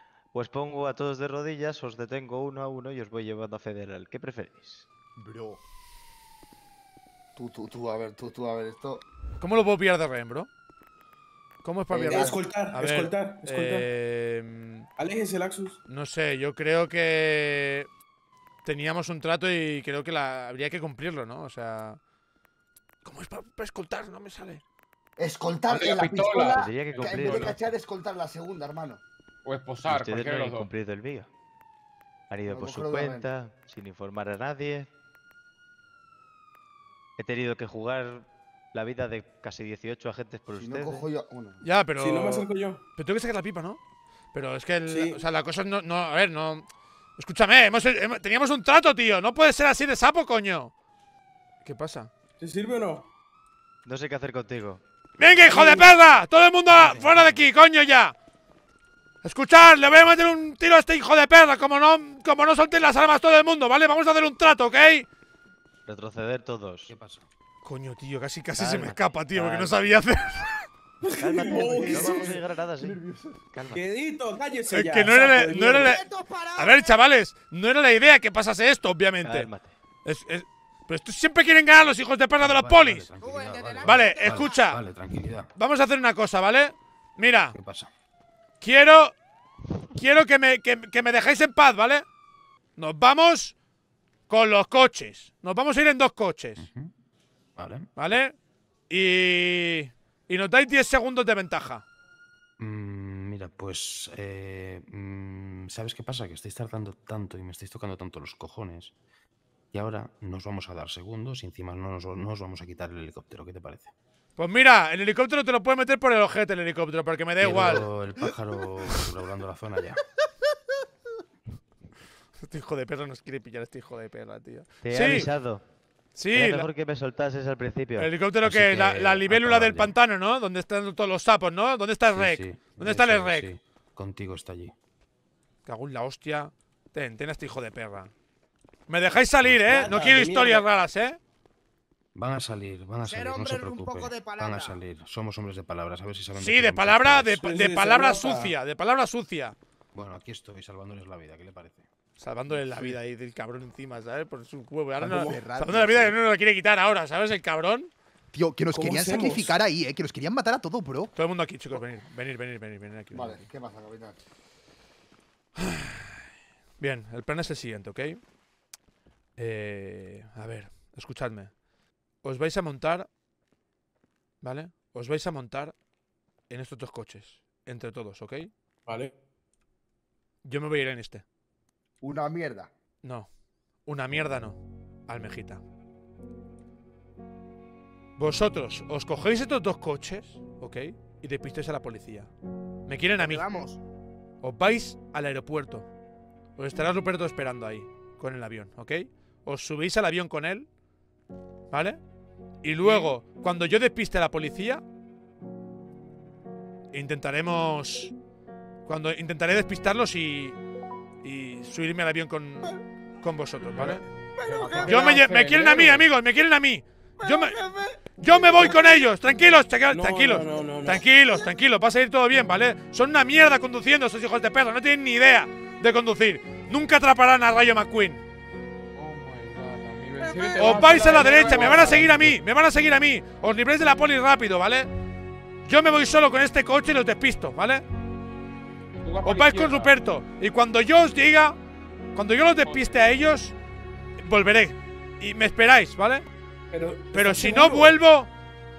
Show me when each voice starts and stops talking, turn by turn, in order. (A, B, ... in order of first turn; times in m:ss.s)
0:00.3-0:04.9 A
0:05.2-0:05.6 B
0:07.4-0:09.0 C
0:09.4-0:10.5 D
0:11.6-0:14.9 D
0:11.9-0:12.4 C
0:12.1-0:13.9 E
0:15.0-0:15.8 E
0:15.9-0:17.9 D
0:18.6-0:22.0 D
0:23.0-0:24.6 D
0:25.2-0:29.0 C
0:25.7-0:27.4 F
0:25.9-0:27.6 A
0:29.4-0:30.7 F
0:29.8-0:31.3 A
0:32.3-0:34.9 A
0:32.5-0:33.3 C
0:37.2-0:41.1 A
0:40.5-0:41.6 C
0:41.6-0:43.8 D
0:42.0-0:42.8 E
0:44.3-0:46.6 D
0:44.9-0:45.2 E
0:47.2-0:50.7 D
0:51.6-0:52.1 D
0:52.4-0:53.0 E
0:53.8-0:54.8 A
0:55.2-0:58.1 D
0:55.4-0:56.0 E
0:56.7-0:57.4 G
0:59.2-1:05.1 D
1:05.9-1:06.9 A
1:06.8-1:07.3 G
1:07.6-1:10.6 D
1:08.6-1:10.0 A
1:11.0-1:12.4 E
1:11.1-1:13.0 A
1:11.3-1:13.4 B
1:13.5-1:13.9 A
1:13.7-1:16.0 E
1:14.7-1:19.5 D
1:15.7-1:17.0 H
1:19.2-1:19.7 A
1:20.0-1:23.1 D
1:22.4-1:25.5 G
1:23.2-1:24.6 H
1:23.8-1:24.8 D
1:25.6-1:27.5 D
1:27.5-1:27.9 G
1:28.6-1:29.1 D
1:29.9-1:32.0 D
1:32.8-1:33.5 D
1:34.3-1:36.6 D
1:36.6-1:36.9 G
1:37.6-1:37.9 G
1:38.0-1:38.3 D
1:38.9-1:41.8 D
1:42.6-1:48.9 G
1:49.7-1:53.9 G
1:54.4-1:57.9 D
1:57.4-2:00.0 G
2:02.4-2:05.3 D
2:04.8-2:05.6 A
2:06.2-2:06.7 D
2:06.3-2:08.2 A
2:08.0-2:13.5 D
2:08.4-2:10.0 G
2:12.1-2:14.7 G
2:15.6-2:18.1 D
2:18.9-2:21.2 D
2:19.4-2:20.1 G
2:19.7-2:20.6 E
2:22.1-2:27.4 G
2:23.0-2:24.8 H
2:26.4-2:29.6 D
2:27.4-2:28.5 E
2:29.9-2:31.8 G
2:32.2-2:37.9 D
2:35.0-2:36.2 B
2:35.1-2:35.4 E
2:38.3-2:41.1 B
2:38.7-2:39.6 E
2:41.1-2:43.5 D
2:43.1-2:44.2 C
2:45.6-2:46.2 D
2:46.8-2:48.2 D
2:49.4-2:51.5 D
2:52.2-2:53.1 D
2:54.4-2:55.7 D
2:56.5-2:58.5 D
2:58.9-2:59.1 E
3:00.4-3:01.2 D
3:02.0-3:02.7 C
3:03.0-3:03.3 D
3:03.8-3:05.6 D
3:08.2-3:12.3 D
3:12.9-3:13.5 D
3:13.2-3:13.8 H
3:14.4-3:15.9 D
3:16.6-3:20.7 D
3:21.7-3:22.0 D
3:22.6-3:24.8 D
3:26.9-3:28.1 D
3:28.8-3:30.6 D
3:31.2-3:34.0 D
3:33.7-3:36.0 F
3:34.5-3:35.1 B
3:34.8-3:37.6 D
3:34.9-3:35.2 E
3:38.2-3:48.2 D
3:38.6-3:38.9 E
3:39.9-3:41.0 E
3:48.9-3:52.1 F
3:50.2-3:52.1 E
3:50.6-3:54.9 D
3:55.6-3:57.8 D
3:59.0-4:00.0 F
3:59.2-4:01.6 D
4:02.1-4:03.5 D
4:02.6-4:03.1 F
4:04.2-4:06.2 D
4:06.7-4:08.0 E
4:07.1-4:08.3 D